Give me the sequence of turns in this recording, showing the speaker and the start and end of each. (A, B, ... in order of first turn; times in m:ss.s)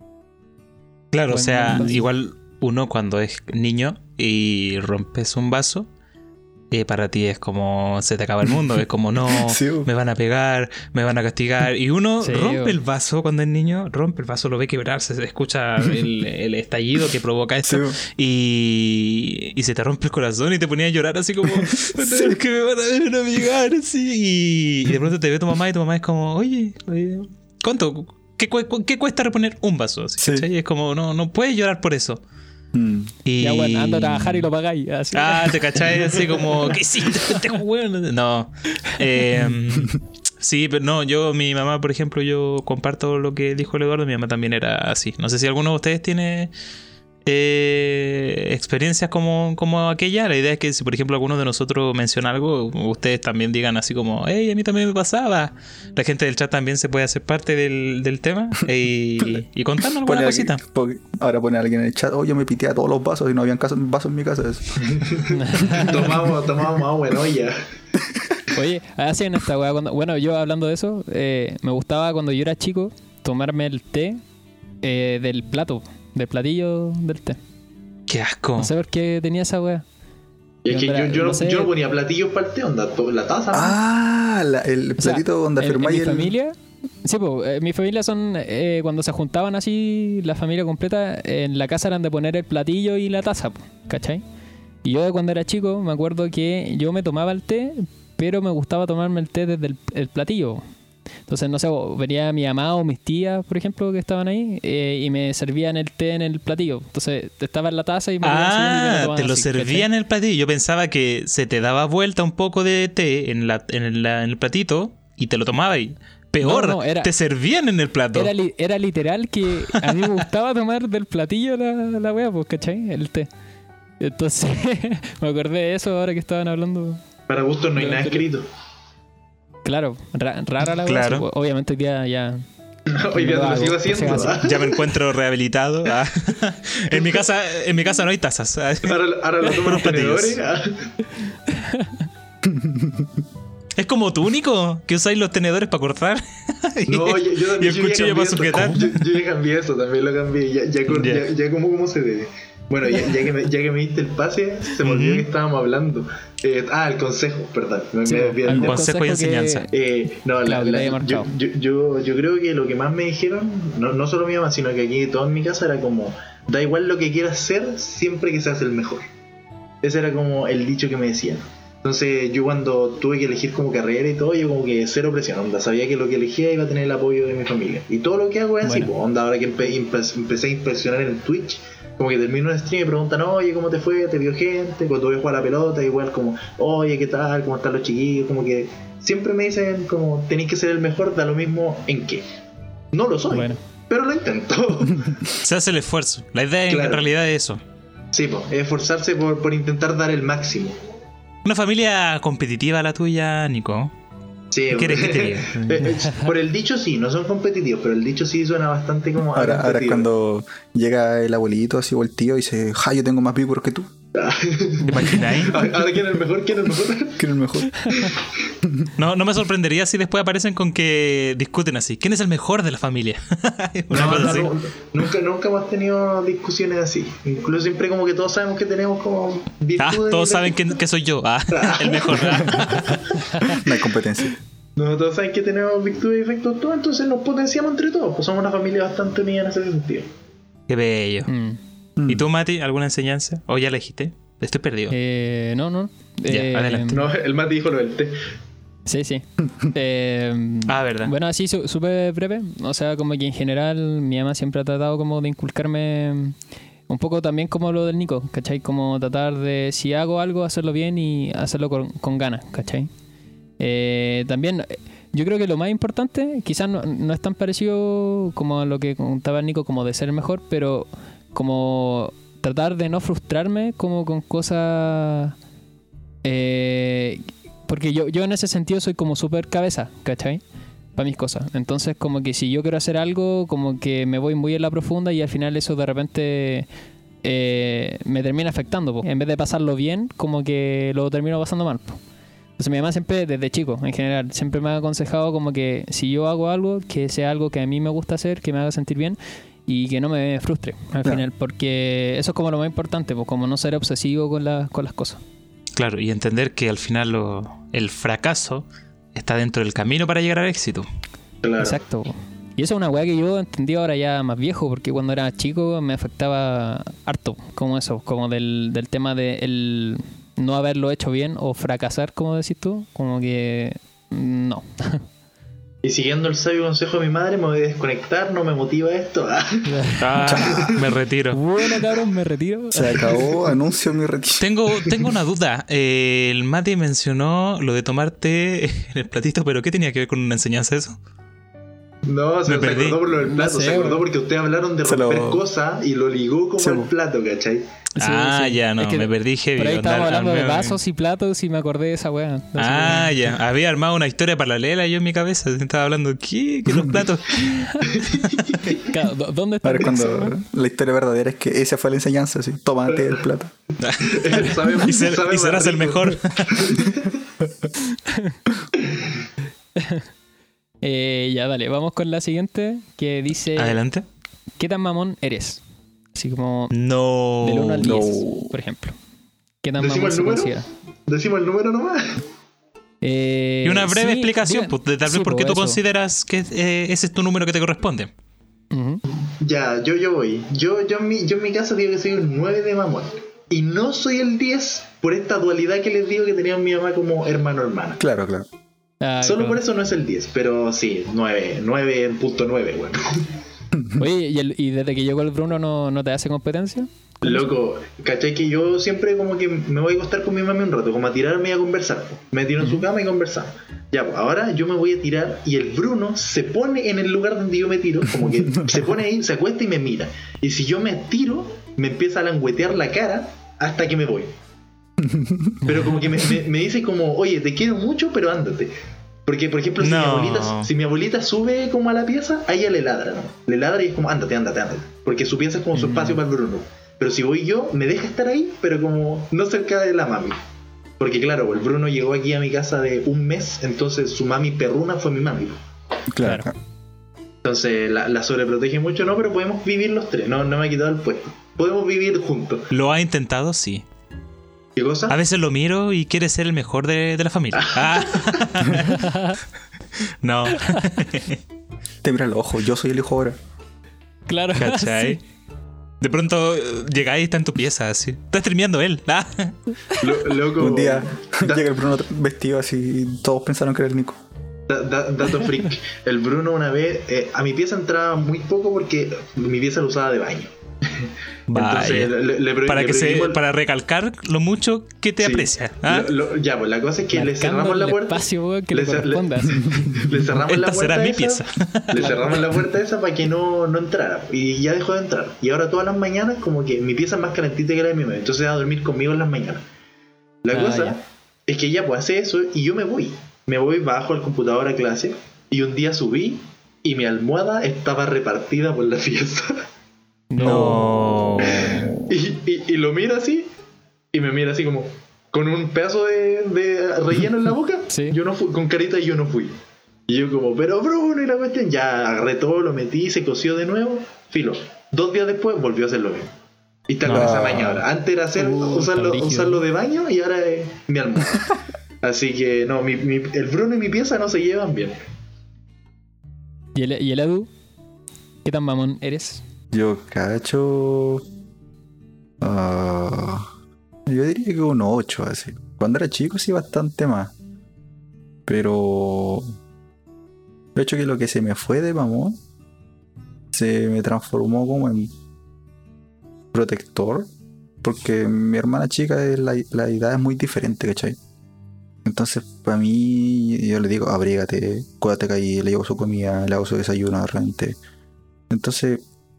0:01.1-0:05.9 A
0:01.3-0:02.0 B
0:01.7-0:02.0 C
0:06.7-0:32.2 A
0:09.2-0:09.9 C
0:12.2-0:12.8 B
0:17.6-0:18.0 C
0:21.7-0:22.4 C
0:30.2-0:30.5 C
0:32.7-0:33.1 C
0:33.2-0:34.5 A
0:33.4-0:35.9 B
0:35.1-0:46.5 A
0:47.2-1:00.6 A
1:00.0-1:05.0 C
1:04.9-1:07.6 D
1:05.3-1:06.0 B
1:08.5-1:14.2 B
1:14.8-1:17.4 B
1:18.1-1:18.7 A
1:18.6-1:19.8 B
1:20.6-1:23.8 D
1:20.7-1:21.7 B
1:23.5-1:26.3 C
1:25.0-1:34.2 B
1:34.8-1:40.6 B
1:41.3-1:49.9 B
1:48.2-1:58.3 A
1:56.4-1:57.1 B
1:58.1-2:03.3 B
2:04.0-2:07.0 B
2:07.3-2:08.4 D
2:07.8-2:08.2 B
2:09.6-2:12.4 B
2:10.8-2:11.2 A
2:12.9-2:15.0 D
2:13.1-2:14.4 B
2:14.0-2:20.4 A
2:18.8-2:20.9 D
2:21.5-2:22.0 B
2:22.4-2:23.1 C
2:23.8-2:29.0 A
2:26.9-2:38.8 D
2:30.9-2:31.3 A
2:34.8-2:35.3 A
2:38.0-2:39.7 B
2:38.5-2:39.7 A
2:39.7-2:49.0 D
2:40.4-2:41.3 B
2:49.8-3:12.2 D
2:58.6-2:58.9 B
3:12.9-3:15.2 D
3:13.3-3:13.6 B
3:15.4-3:17.6 A
3:16.7-3:17.0 D
3:18.1-3:20.8 D
3:21.4-3:23.9 A
3:24.5-3:30.0 D
3:24.7-3:26.0 A
3:29.3-3:33.9 C
3:34.1-3:37.2 D
3:34.8-3:35.7 A
3:37.2-3:38.0 C
3:37.9-3:38.3 D
3:38.6-3:38.9 C
3:39.0-3:44.5 A
3:43.9-3:50.6 D
3:49.8-3:53.0 A
3:51.5-3:53.2 D
3:52.5-3:52.8 C
3:53.4-3:54.3 C
3:54.8-4:00.1 D
4:00.7-4:01.3 A
4:01.3-4:01.6 B
4:02.0-4:02.3 C
4:02.1-4:04.9 A
4:04.9-4:07.0 B
4:06.3-4:07.1 A
4:06.9-4:08.2 D
4:08.9-4:16.4 B
4:10.7-4:11.1 A
4:16.9-4:22.9 B
4:23.6-4:35.3 B
4:36.2-4:40.4 B
4:40.9-4:46.7 B
4:47.2-4:52.0 B
4:52.6-5:05.2 B
5:05.8-5:10.9 A
5:11.4-5:11.8 D
5:11.6-5:25.0 B
5:25.8-5:29.7 D
5:29.7-5:30.0 B
5:30.0-5:31.4 A
5:30.2-5:30.8 C
5:30.4-5:30.8 D
5:31.3-5:33.2 B
5:32.7-5:34.5 C
5:34.4-5:41.0 A
5:42.0-5:47.6 D
5:42.4-5:43.0 A
5:43.2-5:44.0 B
5:44.8-5:45.4 C
5:46.6-5:46.9 C
5:48.0-5:53.2 B
5:48.0-5:50.8 A
5:52.6-5:58.8 A
5:56.7-5:57.0 C
5:57.4-5:58.8 D
5:58.8-6:00.3 B
5:59.6-6:03.5 C
6:03.8-6:06.8 A
6:04.0-6:07.2 D
6:07.9-6:08.4 B
6:08.8-6:09.1 D
6:09.8-6:10.0 B
6:10.8-6:13.8 B
6:13.6-6:14.0 A
6:14.6-6:15.6 B
6:16.1-6:16.7 B
6:16.7-6:18.0 A
6:17.4-6:19.0 B
6:17.8-6:18.5 C
6:19.6-6:20.6 B
6:19.8-6:22.2 D
6:23.0-6:25.8 B
6:23.6-6:28.1 A
6:28.7-6:29.0 B
6:29.1-6:38.0 D
6:38.0-6:38.5 C
6:39.0-6:39.6 B
6:39.2-6:43.4 D
6:43.7-6:44.0 C
6:44.0-6:47.5 B
6:47.2-7:04.3 D
6:52.6-6:52.9 B
6:58.2-6:58.7 C
7:05.0-7:05.7 C
7:05.6-7:08.7 D
7:09.2-7:20.4 D
7:09.8-7:10.7 A
7:15.7-7:16.2 B
7:21.0-7:25.6 D
7:26.1-7:26.6 C
7:26.2-7:26.5 B
7:27.4-7:32.7 D
7:32.7-7:33.8 A
7:34.8-7:35.2 D
7:35.1-7:39.1 A
7:37.6-7:38.4 D
7:38.9-7:39.4 B
7:40.2-7:41.4 A
7:40.6-7:40.8 B
7:42.0-7:43.4 C
7:44.3-7:45.2 B
7:44.6-7:45.2 A
7:46.0-7:49.7 A
7:50.0-7:51.6 D
7:50.6-7:54.2 C
7:54.7-8:03.4 D
8:01.5-8:06.1 A
8:05.2-8:19.6 D
8:07.1-8:10.1 B
8:10.3-8:12.6 A
8:12.0-8:12.3 B
8:20.4-8:29.6 D
8:20.5-8:21.0 B
8:30.3-8:30.9 B
8:30.4-8:31.9 A
8:30.4-8:32.1 C
8:31.4-8:33.5 D
8:34.1-8:39.5 D
8:37.9-8:38.2 B
8:40.1-8:46.3 D
8:46.9-8:55.0 D
8:47.0-8:47.8 C
8:48.4-8:49.6 B
8:56.7-8:57.5 B
8:58.4-8:59.4 B
8:59.7-9:01.2 C
9:02.4-9:03.5 C
9:04.1-9:07.3 C
9:08.5-9:09.5 C
9:10.7-9:12.4 C
9:13.5-9:15.1 C
9:16.5-9:17.3 C
9:17.8-9:21.2 C
9:22.0-9:27.8 C
9:28.5-9:29.0 C